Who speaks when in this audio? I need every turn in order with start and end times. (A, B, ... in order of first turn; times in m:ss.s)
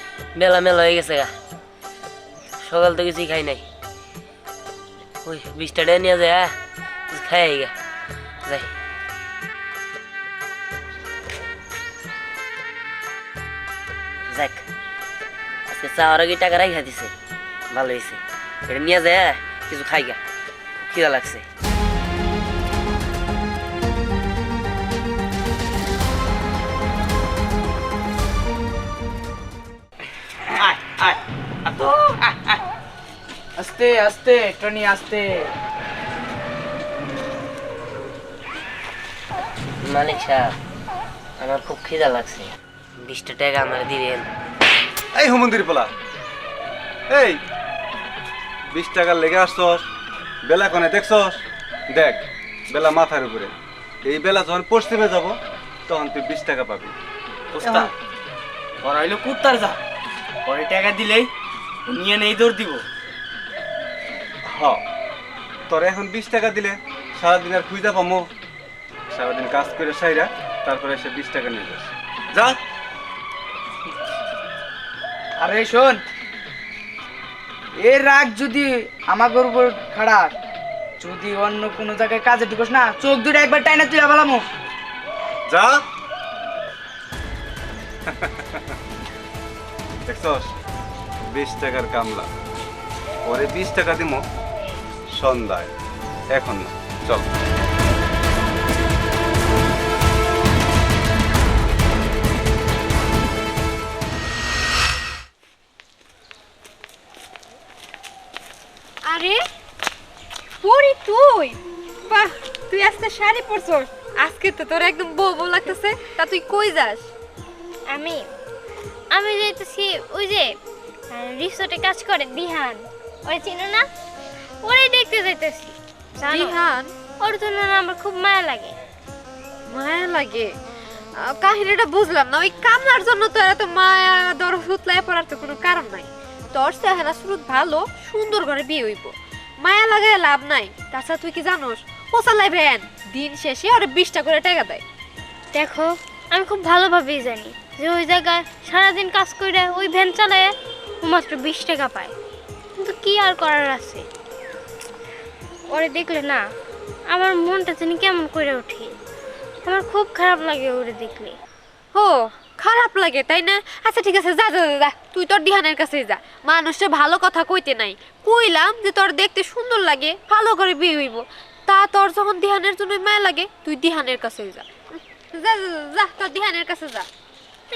0:00.4-0:01.3 A
0:02.6-0:03.6 A
0:05.2-0:06.5 A
0:07.1-0:07.7 A
0:14.3-0:14.6 A
0:15.7-0:17.1 A
0:17.7-0:20.2 A
0:20.8-0:21.4 A
0:30.6-0:31.1 B
0:31.7-0:32.0 C
0:32.2-0:32.5 B
0:33.6-0:35.5 B
0:39.8-0:40.5 A
0:41.4-0:44.3 A
0:45.2-0:45.9 D
0:47.1-0:47.4 D
0:48.7-0:49.8 D
0:50.4-0:51.4 D
0:51.9-0:53.5 D
0:54.0-0:55.3 D
0:55.9-0:56.9 D
0:57.5-0:57.9 C
0:57.6-0:57.9 D
0:58.8-0:59.8 C
1:00.4-1:01.3 C
1:01.9-1:02.8 C
1:04.5-1:04.8 D
1:05.7-1:08.2 D
1:09.1-1:12.6 D
1:15.4-1:16.0 B
1:17.8-1:20.3 B
1:21.0-1:24.4 B
1:25.5-1:25.8 D
1:28.1-1:28.7 D
1:30.1-1:30.5 D
1:31.3-1:32.3 D
1:33.3-1:34.2 D
1:35.1-1:35.7 D
1:36.3-1:37.3 D
1:49.1-1:49.4 E
1:50.6-1:51.6 E
1:52.1-1:57.1 E
1:57.9-1:58.3 F
1:59.1-2:00.5 F
2:01.1-2:03.9 F
2:04.6-2:06.6 F
2:06.3-2:06.9 E
2:07.2-2:08.7 F
2:09.7-2:10.5 E
2:11.2-2:24.8 E
2:25.5-2:32.1 F
2:32.8-2:34.1 F
2:35.7-2:36.4 F
2:37.1-2:38.9 F
2:39.6-2:41.4 F
2:41.9-2:57.1 E